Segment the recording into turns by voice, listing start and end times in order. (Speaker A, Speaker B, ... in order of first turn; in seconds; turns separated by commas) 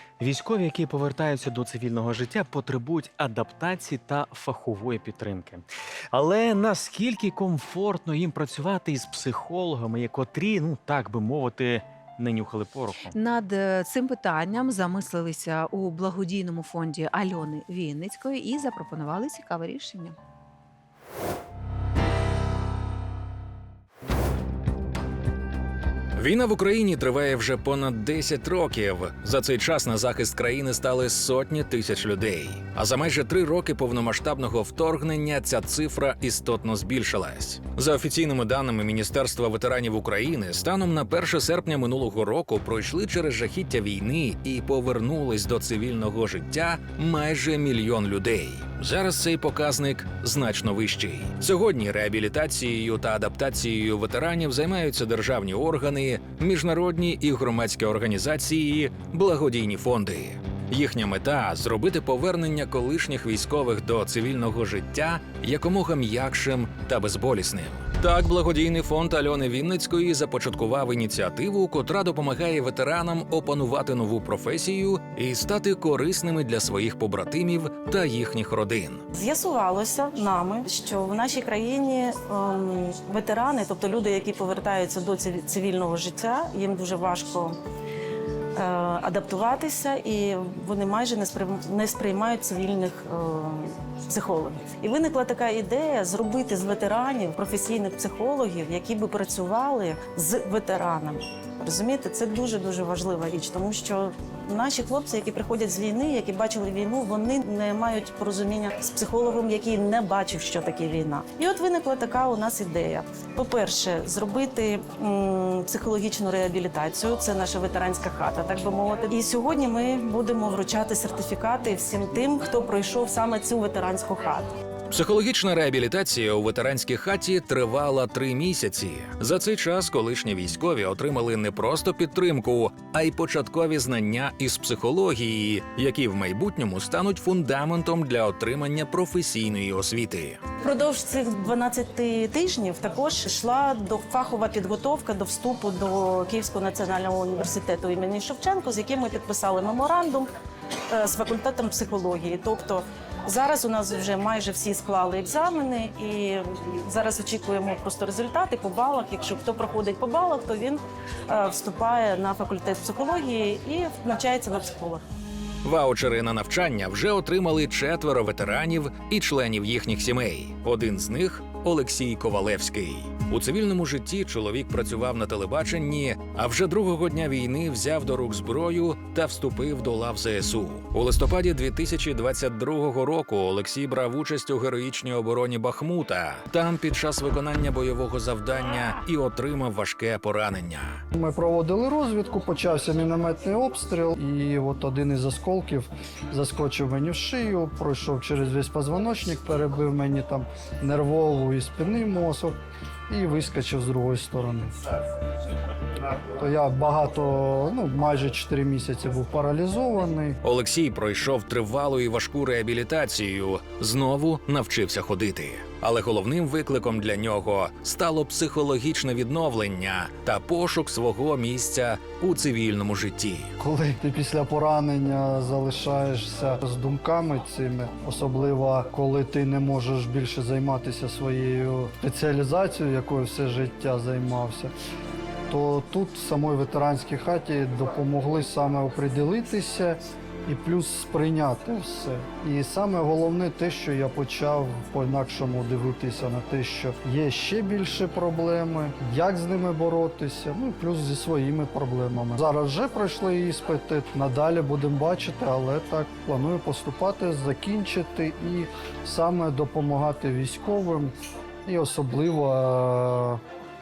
Speaker A: 0.2-13.1, Speaker B: 13.1-20.1, Speaker C: 26.2-79.0, Speaker D: 79.1-87.6, Speaker D: 88.6-124.5, Speaker C: 124.9-140.4, Speaker D: 140.6-150.3, Speaker D: 150.9-165.0, Speaker C: 165.6-191.0, Speaker E: 191.1-202.6, Speaker E: 203.1-204.7, Speaker E: 206.4-210.4, Speaker C: 210.4-223.5, Speaker E: 223.6-234.7, Speaker E: 235.5-261.1, Speaker E: 261.6-263.4